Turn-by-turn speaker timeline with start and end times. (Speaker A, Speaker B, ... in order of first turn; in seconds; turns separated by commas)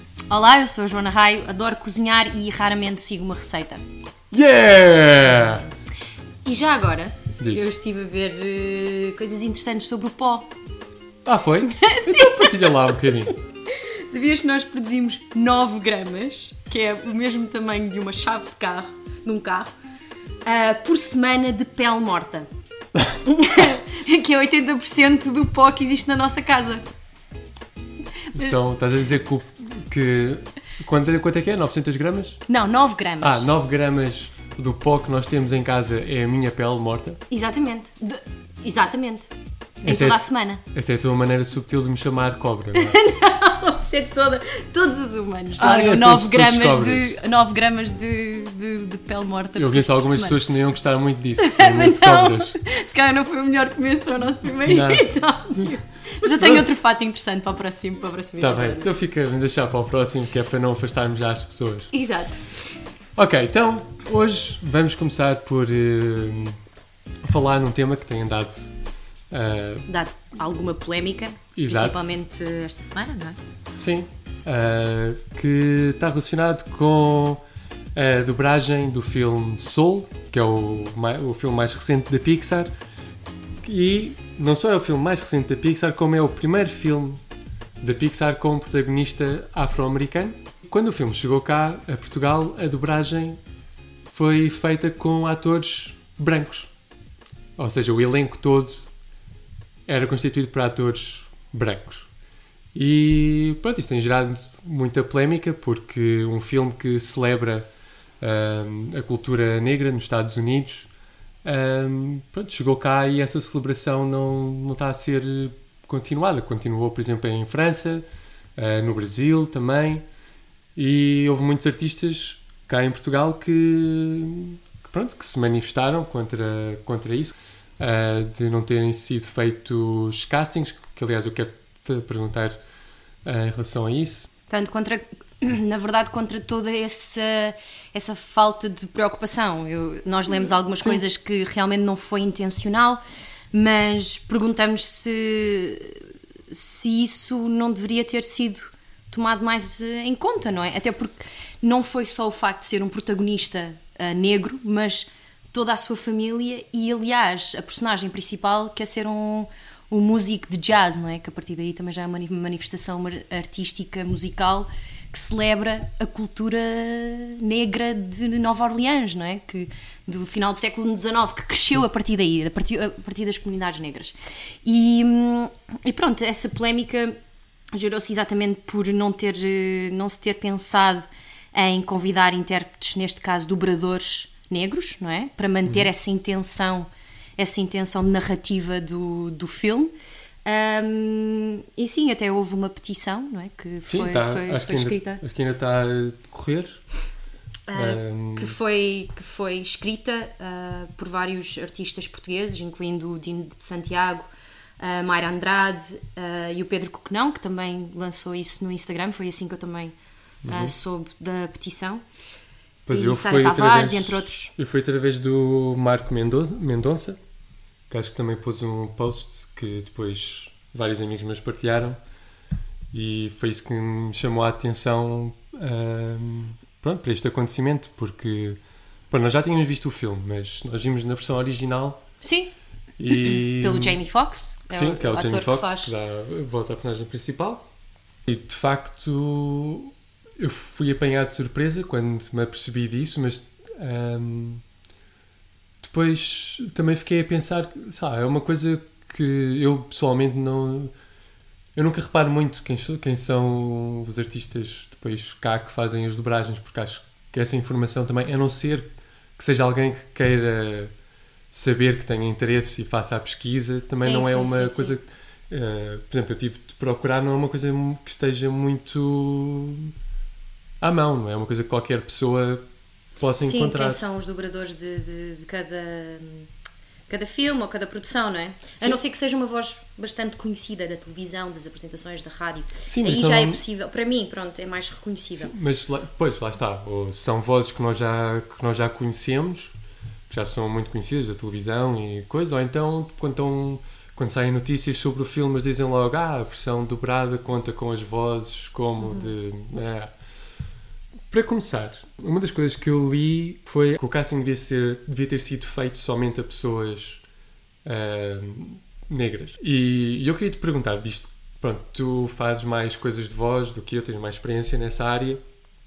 Speaker A: 0.3-3.8, Speaker B: 4.3-5.7, Speaker A: 6.4-10.5, Speaker B: 7.4-7.6, Speaker B: 11.2-13.3, Speaker A: 11.7-13.2, Speaker A: 13.7-19.7, Speaker A: 20.4-22.5, Speaker A: 23.2-26.8, Speaker A: 28.3-28.6, Speaker B: 28.3-32.4, Speaker A: 32.5-33.5, Speaker B: 33.2-37.2, Speaker A: 37.3-39.3, Speaker A: 39.8-40.6, Speaker B: 39.8-43.0, Speaker A: 42.7-50.4, Speaker B: 45.6-47.1, Speaker B: 49.6-52.5, Speaker A: 51.4-58.9, Speaker B: 54.7-55.1, Speaker B: 56.2-56.6, Speaker B: 58.4-61.9, Speaker A: 61.9-62.7, Speaker B: 63.1-66.6, Speaker B: 67.2-68.7, Speaker B: 69.3-69.9, Speaker A: 69.9-73.4, Speaker B: 71.5-72.1, Speaker B: 73.8-77.4, Speaker B: 77.9-82.7, Speaker B: 83.6-87.2, Speaker B: 87.8-93.4, Speaker B: 94.1-96.7, Speaker B: 97.6-98.8, Speaker B: 99.9-102.1, Speaker B: 102.7-107.7, Speaker B: 108.2-110.9, Speaker B: 111.4-118.0, Speaker B: 118.6-120.0, Speaker B: 120.8-132.6, Speaker B: 133.2-134.3, Speaker A: 134.5-143.0, Speaker A: 143.5-177.2, Speaker A: 177.7-189.9, Speaker A: 190.4-195.2, Speaker B: 193.8-196.8, Speaker A: 197.7-204.3, Speaker B: 197.7-198.5, Speaker A: 204.8-209.9, Speaker B: 210.4-210.7, Speaker A: 210.5-212.0, Speaker B: 212.9-217.2, Speaker A: 212.9-214.5, Speaker B: 217.9-222.0, Speaker B: 222.9-228.6, Speaker B: 229.1-232.0, Speaker A: 232.2-232.5, Speaker B: 233.0-234.0, Speaker A: 233.1-235.9, Speaker B: 234.7-237.6, Speaker B: 238.3-244.6, Speaker B: 245.8-250.9, Speaker B: 251.8-260.9, Speaker B: 261.5-269.9, Speaker A: 264.0-264.9, Speaker B: 270.8-272.6, Speaker B: 273.2-274.0, Speaker A: 273.4-276.5, Speaker A: 277.1-285.5, Speaker B: 282.9-283.6, Speaker B: 285.3-289.7, Speaker B: 290.3-300.1, Speaker B: 301.3-307.2, Speaker B: 307.8-315.4